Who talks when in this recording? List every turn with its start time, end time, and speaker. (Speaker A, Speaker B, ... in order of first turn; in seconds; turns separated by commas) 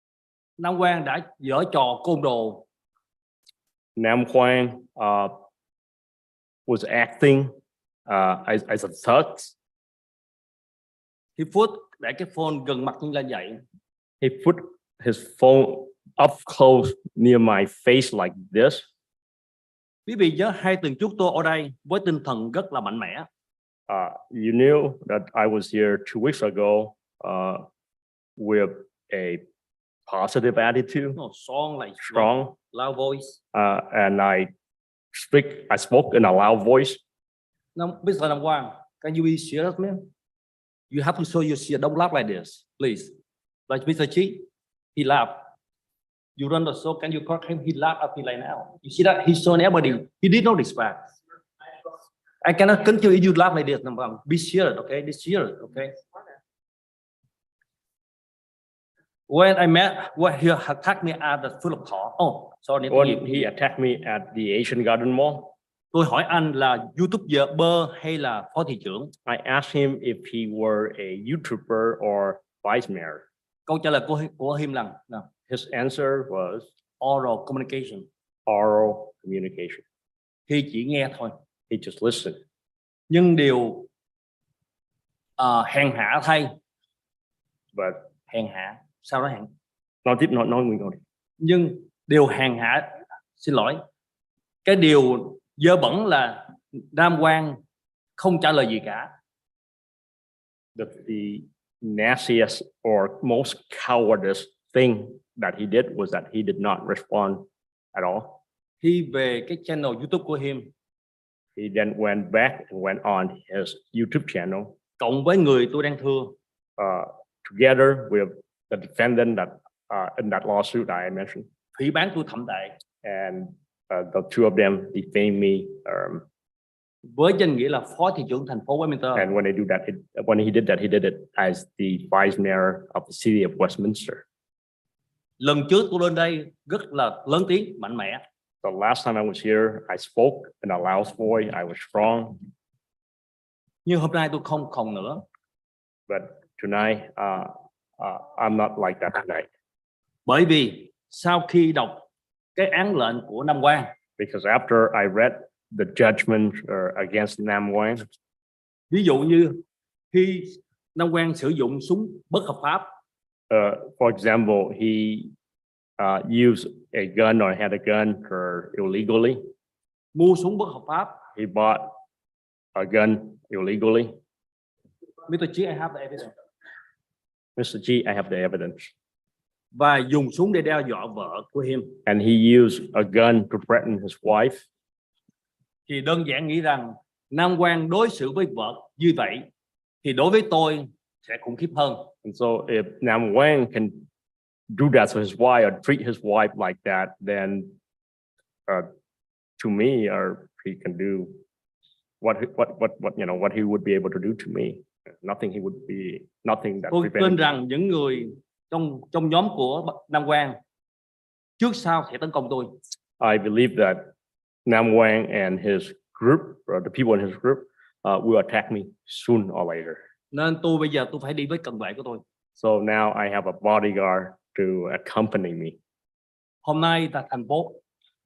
Speaker A: 0.6-2.7, Speaker B: 4.0-5.3, Speaker B: 6.7-7.5, Speaker B: 8.1-9.6, Speaker A: 11.4-13.6, Speaker B: 14.2-18.9, Speaker A: 20.1-23.3, Speaker B: 23.9-27.6, Speaker B: 28.4-29.4, Speaker B: 30.1-31.2, Speaker A: 31.2-33.4, Speaker B: 32.0-32.6, Speaker B: 33.5-34.5, Speaker B: 35.1-37.0, Speaker A: 37.8-40.1, Speaker A: 40.9-43.1, Speaker A: 43.7-45.5, Speaker A: 46.4-51.1, Speaker A: 52.4-56.0, Speaker A: 59.3-63.5, Speaker B: 62.9-65.5, Speaker A: 65.9-69.1, Speaker B: 69.3-73.2, Speaker A: 73.7-75.3, Speaker B: 75.5-76.7, Speaker A: 77.0-78.1, Speaker B: 78.5-79.8, Speaker A: 80.5-81.3, Speaker B: 81.7-82.4, Speaker A: 83.1-83.9, Speaker A: 85.4-86.5, Speaker B: 87.8-88.0, Speaker A: 88.3-89.5, Speaker B: 90.0-91.0, Speaker A: 91.4-93.8, Speaker A: 94.7-97.6, Speaker A: 98.2-99.1, Speaker B: 100.8-108.4, Speaker A: 108.8-110.7, Speaker B: 111.6-114.8, Speaker A: 115.0-116.3, Speaker B: 116.8-121.5, Speaker A: 121.8-122.8, Speaker B: 123.0-126.2, Speaker A: 127.2-129.3, Speaker B: 129.2-134.2, Speaker A: 135.4-138.2, Speaker B: 138.6-142.4, Speaker A: 143.8-145.2, Speaker B: 146.1-149.5, Speaker A: 150.3-152.1, Speaker A: 152.6-153.9, Speaker B: 154.2-158.0, Speaker A: 158.9-162.9, Speaker B: 163.5-165.3, Speaker B: 166.0-169.4, Speaker A: 170.1-171.2, Speaker B: 171.3-171.9, Speaker B: 172.8-174.1, Speaker A: 175.3-176.3, Speaker B: 177.6-178.9, Speaker A: 179.7-182.0, Speaker B: 182.1-184.7, Speaker A: 185.9-189.5, Speaker A: 190.0-192.1, Speaker B: 192.2-194.1, Speaker B: 194.7-197.7, Speaker B: 199.6-201.4, Speaker B: 202.2-207.4, Speaker A: 206.9-210.6, Speaker A: 211.6-212.7, Speaker B: 213.2-214.1, Speaker B: 214.7-220.0, Speaker A: 220.3-222.2, Speaker B: 222.6-225.8, Speaker A: 226.7-227.8